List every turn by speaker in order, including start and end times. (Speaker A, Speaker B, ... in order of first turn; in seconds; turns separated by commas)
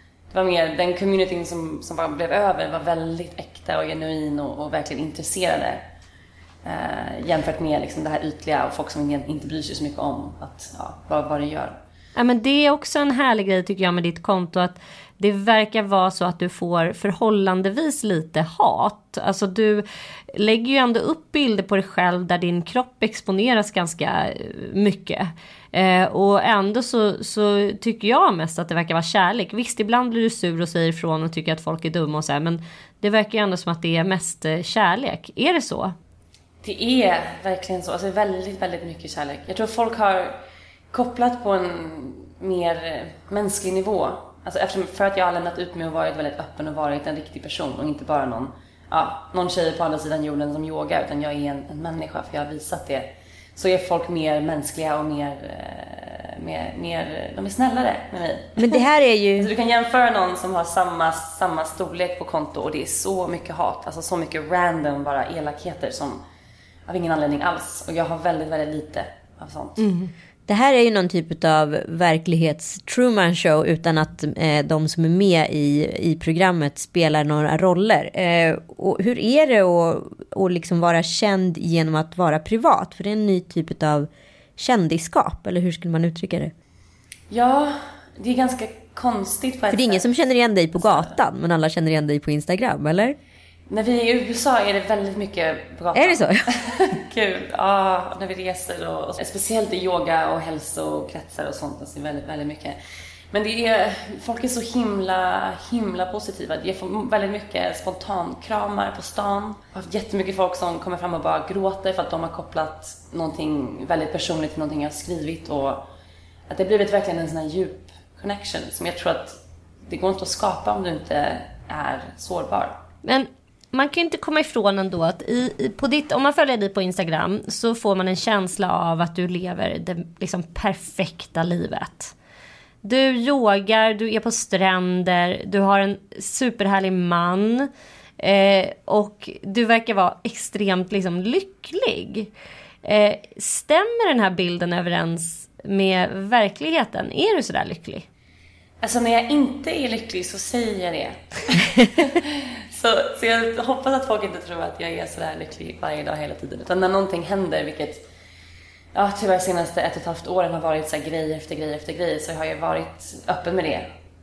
Speaker A: 0.3-5.8, Speaker A: 6.6-11.8, Speaker B: 12.2-35.9, Speaker A: 36.6-40.4, Speaker A: 40.9-58.8, Speaker C: 58.6-59.5, Speaker A: 59.4-66.2, Speaker A: 66.9-69.9, Speaker B: 69.8-70.1, Speaker C: 70.5-86.5, Speaker A: 87.3-90.1, Speaker C: 89.7-93.2, Speaker A: 90.8-91.2, Speaker A: 93.7-102.8, Speaker C: 95.9-96.5, Speaker A: 103.3-115.8, Speaker A: 116.5-122.8, Speaker B: 123.0-132.1, Speaker B: 132.8-142.3, Speaker B: 142.8-148.1, Speaker A: 148.8-158.0, Speaker A: 158.9-163.9